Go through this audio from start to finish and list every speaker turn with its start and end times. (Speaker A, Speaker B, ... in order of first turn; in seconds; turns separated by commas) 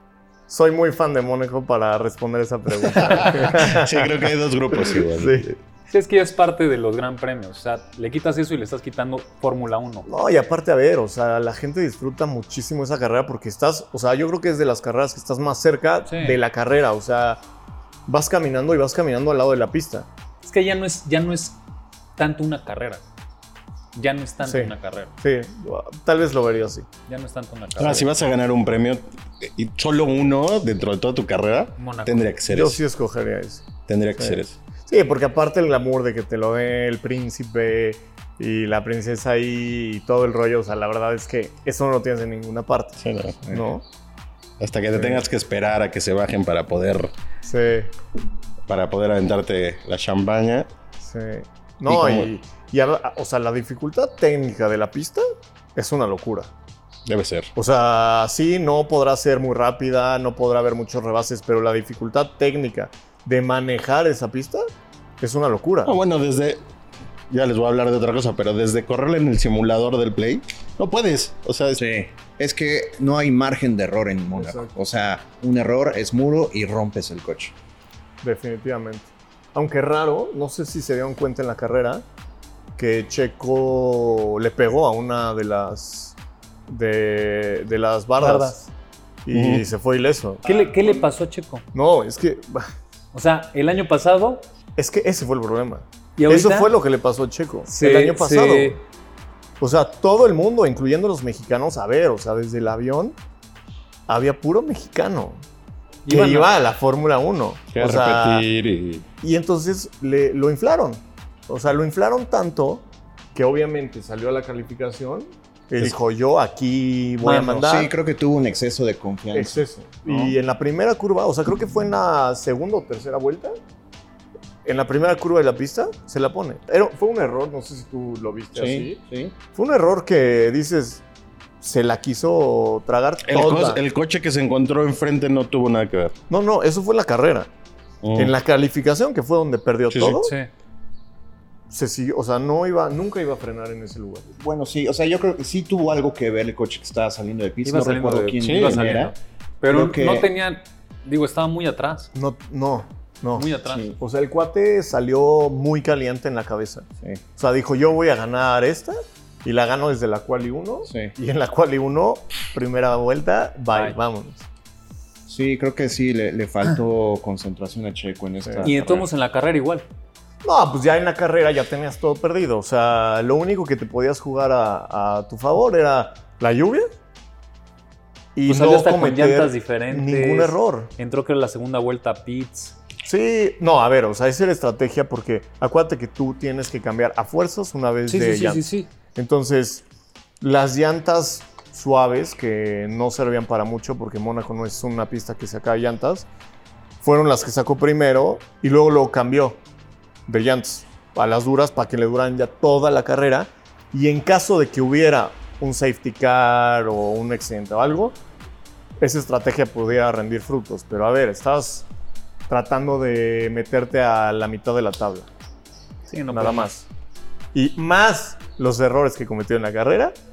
Speaker A: 0.5-4.2, Speaker B: 2.9-5.6, Speaker A: 4.7-5.5, Speaker C: 5.9-10.1, Speaker A: 10.1-17.4, Speaker C: 16.1-16.4, Speaker A: 18.1-20.1, Speaker C: 20.4-21.6, Speaker C: 22.2-23.0, Speaker C: 23.9-25.1, Speaker A: 24.4-26.9, Speaker C: 27.1-28.1, Speaker B: 27.8-32.8, Speaker C: 31.8-32.3, Speaker A: 32.5-43.8, Speaker B: 33.9-34.6, Speaker B: 43.0-43.5, Speaker B: 44.6-47.1, Speaker A: 44.9-45.2, Speaker A: 47.4-47.9, Speaker B: 48.7-50.7, Speaker A: 51.0-56.5, Speaker B: 51.9-52.3, Speaker B: 57.1-57.5, Speaker A: 57.5-64.7, Speaker A: 65.2-66.0, Speaker B: 65.9-66.6, Speaker B: 67.3-71.8, Speaker D: 71.8-77.5, Speaker A: 74.3-74.8, Speaker A: 78.2-82.0, Speaker A: 82.8-86.2, Speaker A: 86.7-88.7, Speaker C: 88.2-88.6, Speaker A: 89.3-90.5, Speaker B: 89.3-89.7, Speaker C: 90.5-91.7, Speaker A: 91.7-92.7, Speaker C: 93.1-94.4, Speaker A: 94.8-98.8, Speaker C: 96.2-96.7, Speaker C: 97.7-98.8, Speaker A: 99.6-103.2, Speaker A: 104.1-105.4, Speaker C: 106.1-106.5, Speaker A: 106.1-108.5, Speaker B: 107.7-109.1, Speaker A: 109.2-117.9, Speaker C: 117.2-117.8, Speaker D: 117.6-120.3, Speaker A: 119.3-123.5, Speaker A: 124.7-129.0, Speaker D: 128.6-129.3, Speaker A: 129.5-131.0, Speaker A: 131.6-133.8, Speaker B: 133.3-136.2, Speaker A: 136.3-137.5, Speaker B: 138.0-138.3, Speaker A: 138.2-140.3, Speaker B: 139.9-140.2, Speaker C: 140.2-140.5, Speaker A: 141.7-144.2, Speaker D: 144.4-149.1, Speaker C: 147.7-152.1, Speaker B: 148.4-148.8, Speaker D: 149.7-150.3, Speaker A: 152.2-156.9, Speaker C: 153.4-153.9, Speaker D: 153.7-153.9, Speaker A: 157.4-164.4, Speaker D: 160.9-161.1, Speaker D: 165.3-169.1, Speaker C: 168.6-169.9, Speaker A: 170.4-176.9, Speaker A: 178.4-180.9, Speaker C: 178.5-182.8, Speaker A: 183.1-188.6, Speaker C: 188.1-188.9, Speaker A: 189.2-189.8, Speaker A: 190.4-196.3, Speaker A: 197.0-199.6, Speaker A: 200.3-208.2, Speaker A: 209.0-211.9, Speaker A: 212.5-215.3, Speaker C: 216.1-216.7, Speaker A: 216.3-216.9, Speaker A: 217.5-220.2